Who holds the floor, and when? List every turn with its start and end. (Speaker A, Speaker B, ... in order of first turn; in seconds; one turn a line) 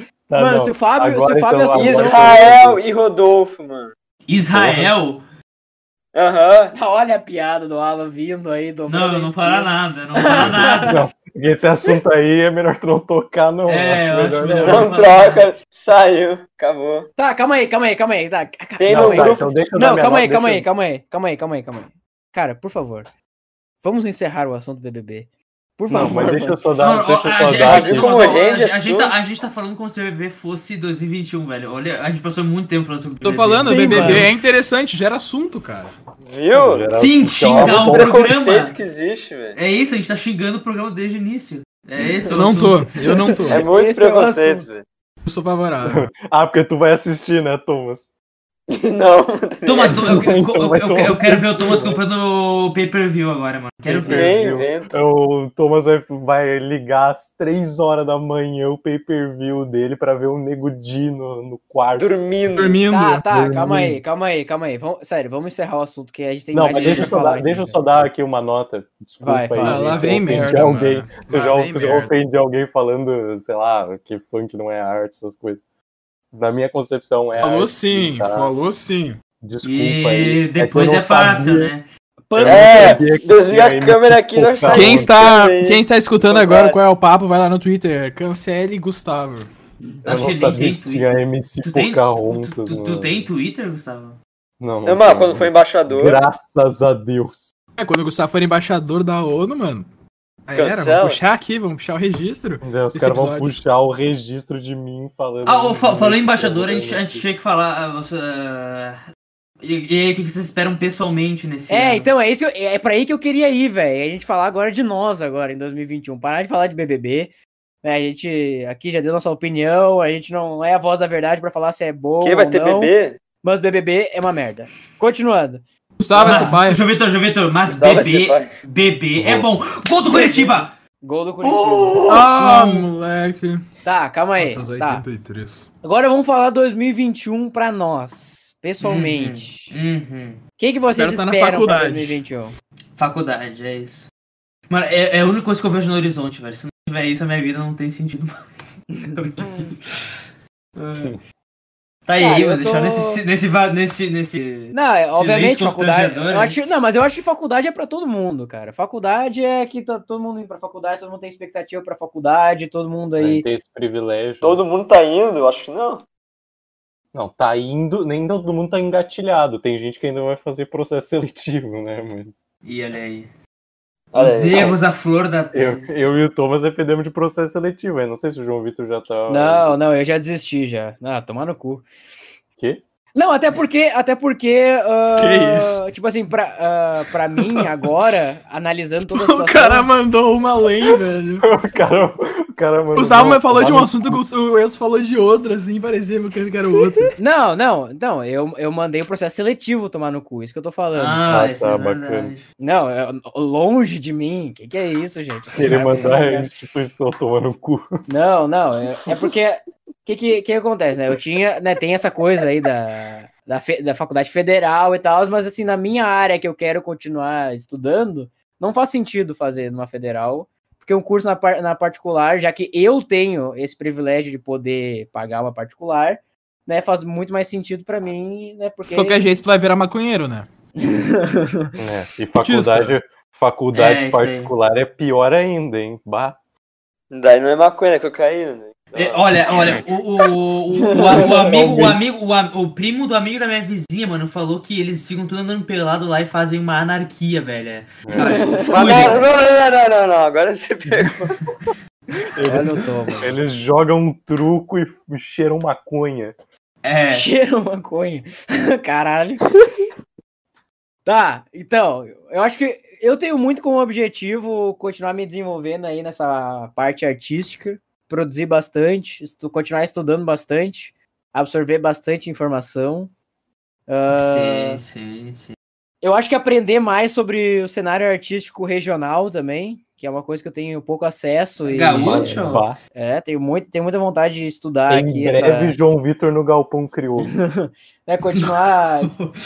Speaker A: 0.3-2.8
Speaker B: 0.4-2.4
Speaker C: 1.7-3.9
Speaker D: 4.3-5.2
Speaker A: 4.5-4.9
Speaker C: 6.1-6.7
Speaker B: 6.7-11.0
Speaker D: 8.9-11.0
Speaker A: 10.3-14.9
Speaker D: 13.7-15.5
Speaker C: 14.6-17.1
Speaker B: 17.2-23.1
Speaker C: 18.8-19.5
Speaker A: 18.9-20.6
Speaker B: 23.8-26.6
Speaker A: 25.9-28.2
Speaker D: 26.8-34.3
Speaker C: 27.5-29.1
Speaker E: 33.2-35.9
Speaker B: 33.6-34.3
Speaker C: 36.2-36.9
Speaker A: 36.5-38.2
Speaker D: 36.9-38.8
Speaker C: 37.6-39.6
Speaker D: 39.5-42.9
Speaker E: 42.3-43.7
Speaker B: 43.1-44.7
Speaker C: 43.5-44.9
Speaker E: 45.2-46.1
Speaker A: 45.9-48.1
Speaker C: 48.7-50.2
Speaker D: 49.6-54.4
Speaker A: 49.9-52.0
Speaker A: 53.9-62.1
Speaker C: 54.1-54.9
Speaker C: 62.0-62.8
Speaker E: 62.5-63.3
Speaker B: 62.9-67.8
Speaker A: 63.3-64.0
Speaker A: 66.5-75.6
Speaker D: 66.7-67.2
Speaker B: 69.2-70.0
Speaker E: 69.6-72.1
Speaker A: 76.3-78.5
Speaker E: 77.4-79.2
Speaker A: 79.4-81.7
Speaker D: 79.6-81.8
Speaker B: 82.3-83.2
Speaker A: 82.3-85.4
Speaker C: 82.4-86.8
Speaker E: 84.7-89.5
Speaker A: 90.0-93.3
Speaker D: 90.0-94.2
Speaker A: 94.6-97.5
Speaker C: 94.8-96.2
Speaker E: 97.8-99.9
Speaker E: 100.5-103.5
Speaker C: 100.5-101.2
Speaker A: 102.6-107.2
Speaker D: 105.4-109.0
Speaker D: 109.6-112.1
Speaker B: 111.7-125.6
Speaker C: 122.2-123.2
Speaker E: 126.0-126.8
Speaker D: 126.1-130.7
Speaker B: 126.2-126.6
Speaker C: 127.7-128.5
Speaker A: 129.2-129.5
Speaker B: 130.1-132.5
Speaker D: 131.4-132.9
Speaker E: 132.1-133.6
Speaker B: 133.8-135.1
Speaker E: 134.4-135.7
Speaker B: 135.8-139.7
Speaker D: 138.8-140.4
Speaker B: 140.6-142.5
Speaker E: 140.9-142.2
Speaker D: 143.0-144.1
Speaker D: 144.7-150.1
Speaker B: 149.0-149.6
Speaker D: 150.8-151.1
Speaker D: 152.1-156.6
Speaker B: 152.2-153.2
Speaker B: 154.7-163.5
Speaker A: 163.2-164.6
Speaker C: 164.4-166.1
Speaker A: 167.1-172.4
Speaker D: 172.6-173.3
Speaker C: 174.1-174.8
Speaker D: 174.1-175.9
Speaker A: 175.5-179.8
Speaker B: 179.3-181.9
Speaker B: 183.1-189.9
Speaker E: 185.2-185.8
Speaker E: 189.1-191.5
Speaker A: 191.4-194.2
Speaker E: 192.9-197.1
Speaker B: 197.2-201.2
Speaker D: 200.9-202.4
Speaker A: 201.3-202.3
Speaker B: 202.6-206.6
Speaker A: 205.6-208.0
Speaker B: 208.1-229.2
Speaker E: 228.9-230.5
Speaker B: 230.8-231.8
Speaker A: 231.8-236.4
Speaker E: 232.4-232.9
Speaker D: 233.7-234.5
Speaker C: 237.1-239.2
Speaker D: 238.9-249.3
Speaker B: 240.9-241.6
Speaker A: 241.1-242.0
Speaker A: 248.1-248.4
Speaker B: 248.2-248.7
Speaker C: 248.6-251.3
Speaker A: 252.3-256.4
Speaker B: 252.4-253.3
Speaker D: 256.8-257.3
Speaker B: 257.1-259.4
Speaker B: 261.1-273.1
Speaker B: 273.9-274.8
Speaker D: 274.1-275.6
Speaker B: 276.0-285.8
Speaker D: 281.6-282.7
Speaker A: 281.9-282.8
Speaker A: 284.9-287.3
Speaker B: 287.2-289.2
Speaker D: 289.0-289.3